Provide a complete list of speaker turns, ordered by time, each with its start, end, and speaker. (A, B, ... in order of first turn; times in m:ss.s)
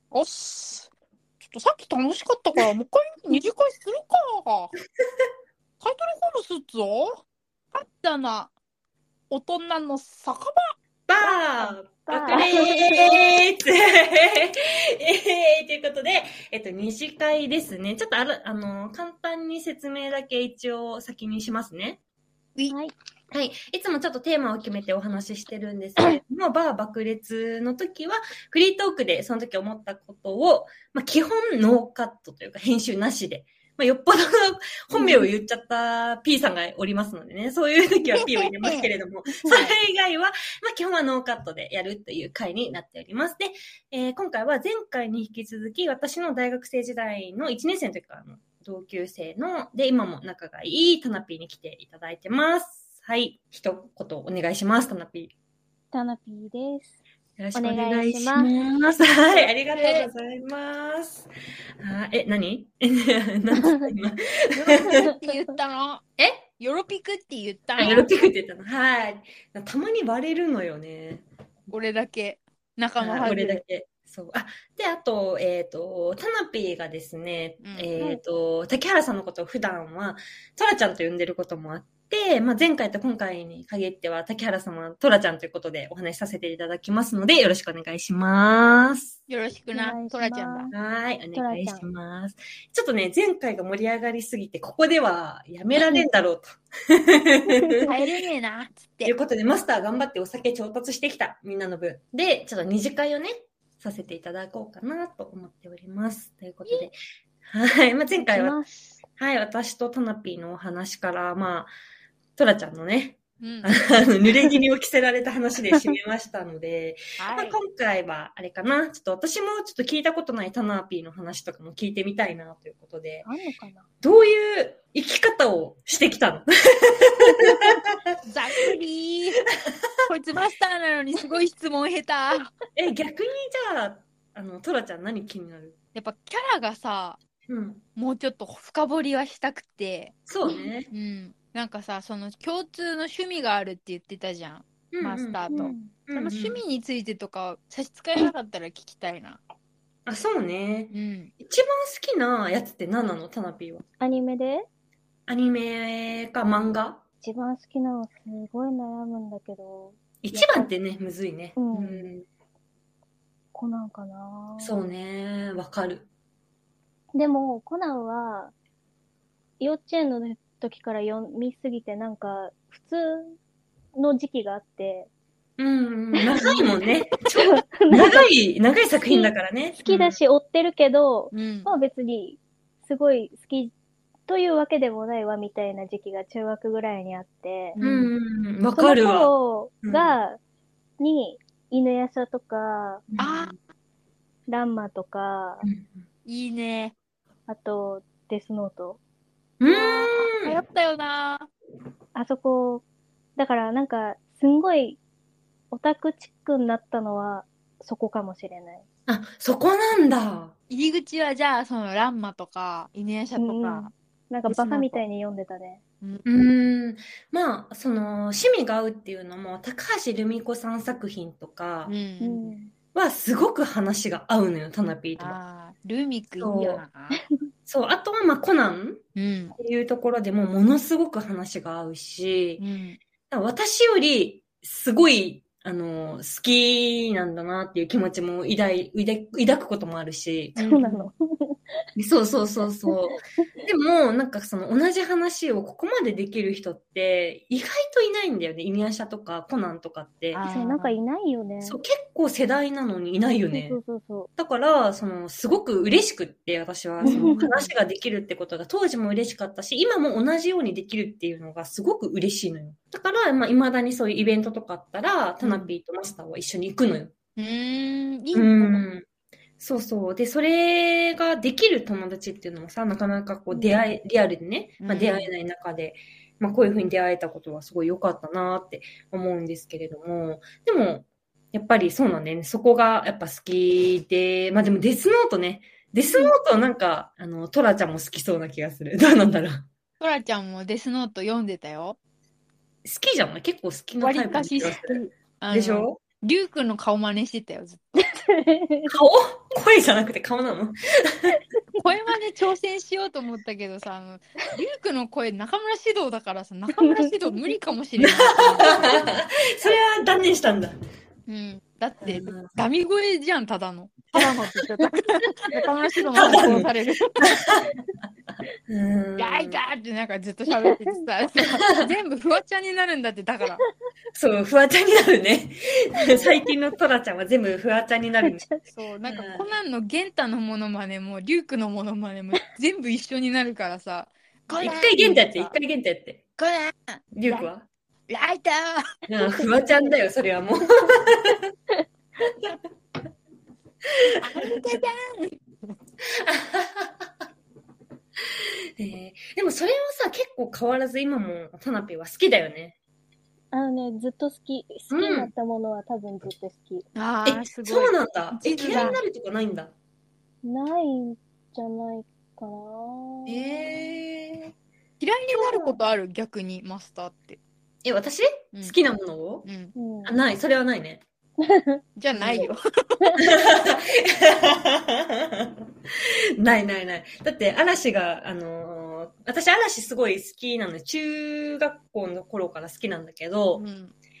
0:00.1-0:00.9 A
0:01.4-0:04.7 A
0:05.8-0:08.5 A
0:09.3-0:10.5 A
0:11.1-0:22.0 B
0:11.2-0:13.1 C
0:12.1-0:13.2 A
0:23.3-0:55.3 B
0:38.0-0:38.9 A
0:39.4-0:39.7 C
0:55.9-0:57.0 C
0:57.4-1:01.3 B
0:57.5-0:58.5 C
0:59.7-1:00.1 A
1:01.8-1:05.0 B
1:03.5-1:03.9 C
1:04.5-1:08.1 A
1:04.9-1:05.5 C
1:07.8-1:11.2 B
1:07.8-1:08.1 C
1:11.7-1:13.6 A
1:13.0-1:29.2 B
1:17.6-1:17.9 A
1:29.3-1:30.7 A
1:29.7-1:30.7 C
1:30.7-1:37.9 B
1:31.3-1:31.8 C
1:37.5-1:38.0 C
1:37.9-1:39.1 A
1:39.0-1:47.0 B
1:47.5-1:48.6 B
1:48.1-1:49.0 C
1:49.2-1:51.7 B
1:52.4-2:03.3 B
1:53.4-1:53.7 A
1:57.2-1:57.6 A
2:03.2-2:03.9 C
2:04.0-2:08.2 B
2:07.3-2:07.6 C
2:08.2-2:09.4 A
2:10.0-2:12.5 A
2:12.7-2:15.8 B
2:15.9-2:17.2 A
2:17.5-2:17.8 B
2:18.0-2:20.2 A
2:20.3-2:20.9 B
2:20.9-2:29.4 A
2:24.9-2:26.6 B
2:25.5-2:25.9 C
2:30.1-2:33.8 B
2:30.9-2:31.3 A
2:34.0-2:34.6 C
2:35.3-2:37.0 B
2:37.2-2:40.7 C
2:40.2-2:42.2 B
2:41.6-2:42.1 C
2:43.5-2:44.7 C
2:44.6-2:46.0 B
2:47.1-2:48.5 C
2:49.6-2:53.4 C
2:53.9-2:55.1 C
2:55.6-3:00.2 B
2:56.2-2:56.7 C
2:57.4-2:58.3 C
2:59.8-3:03.7 C
3:01.3-3:01.7 A
3:04.3-3:07.8 C
3:07.7-3:08.1 A
3:07.8-3:10.2 B
3:08.8-3:10.4 C
3:11.0-3:13.0 C
3:13.1-3:13.6 B
3:13.2-3:13.5 A
3:14.5-3:15.6 C
3:15.6-3:16.0 B
3:16.2-3:16.9 A
3:17.5-3:19.0 C
3:19.6-3:20.5 B
3:19.7-3:21.5 A
3:22.1-3:22.8 C
3:23.4-3:25.0 C
3:25.7-3:28.8 C
3:29.1-3:30.5 B
3:30.7-3:33.9 A
3:33.4-3:35.8 C
3:34.5-3:35.0 A
3:36.2-3:41.9 B
3:41.9-3:42.5 A
3:42.2-3:42.7 C
3:42.9-3:45.4 B
3:45.2-3:47.2 A
3:46.4-3:46.8 B
3:47.7-3:49.0 B
3:49.2-3:49.6 A
3:49.6-3:52.6 B
3:52.6-3:53.0 A
3:53.3-4:00.6 B
4:00.6-4:01.1 A
4:00.6-4:01.6 C
4:02.0-4:10.4 B
4:10.3-4:11.0 A
4:10.5-4:11.8 C
4:11.6-4:13.8 B
4:13.5-4:14.3 C
4:14.4-4:27.1 B
4:17.0-4:17.7 A
4:17.0-4:17.4 C
4:25.4-4:25.7 A
4:27.4-4:28.8 A
4:28.3-4:29.0 B
4:29.6-4:49.7 B
4:34.8-4:35.3 A
4:50.0-4:52.0 A
4:52.8-4:55.0 B
4:54.0-4:57.9 A
4:55.5-4:56.0 B
4:58.0-4:58.9 C
4:58.9-5:01.4 B
5:01.8-5:08.8 A
5:06.7-5:07.5 C
5:08.0-5:10.7 B
5:11.3-5:17.4 A
5:12.0-5:12.5 B
5:16.1-5:17.7 B
5:18.3-5:19.6 B
5:19.2-5:23.6 A
5:20.5-5:21.0 C
5:24.1-5:28.4 B
5:28.3-5:28.6 C
5:28.7-5:35.6 A
5:29.1-5:29.5 B
5:34.5-5:36.2 B
5:36.4-5:37.5 A
5:37.1-5:37.6 B
5:38.1-5:39.0 A
5:39.1-5:41.4 B
5:42.3-5:42.5 B
5:44.1-5:44.8 B
5:44.2-5:45.4 A
5:46.0-5:47.1 B
5:48.3-5:52.7 B
5:53.5-5:56.8 C
5:54.9-5:55.3 B
5:57.0-5:59.0 A
5:57.2-5:59.7 B
6:00.4-6:04.0 C
6:03.2-6:04.5 B
6:05.0-6:07.4 A
6:05.3-6:05.8 B
6:07.8-6:09.5 B
6:09.4-6:09.7 A
6:09.7-6:10.2 C
6:10.0-6:11.0 B
6:11.4-6:11.8 C
6:12.0-6:13.1 A
6:12.1-6:12.5 B
6:13.2-6:15.6 B
6:16.4-6:23.6 B
6:23.6-6:23.9 A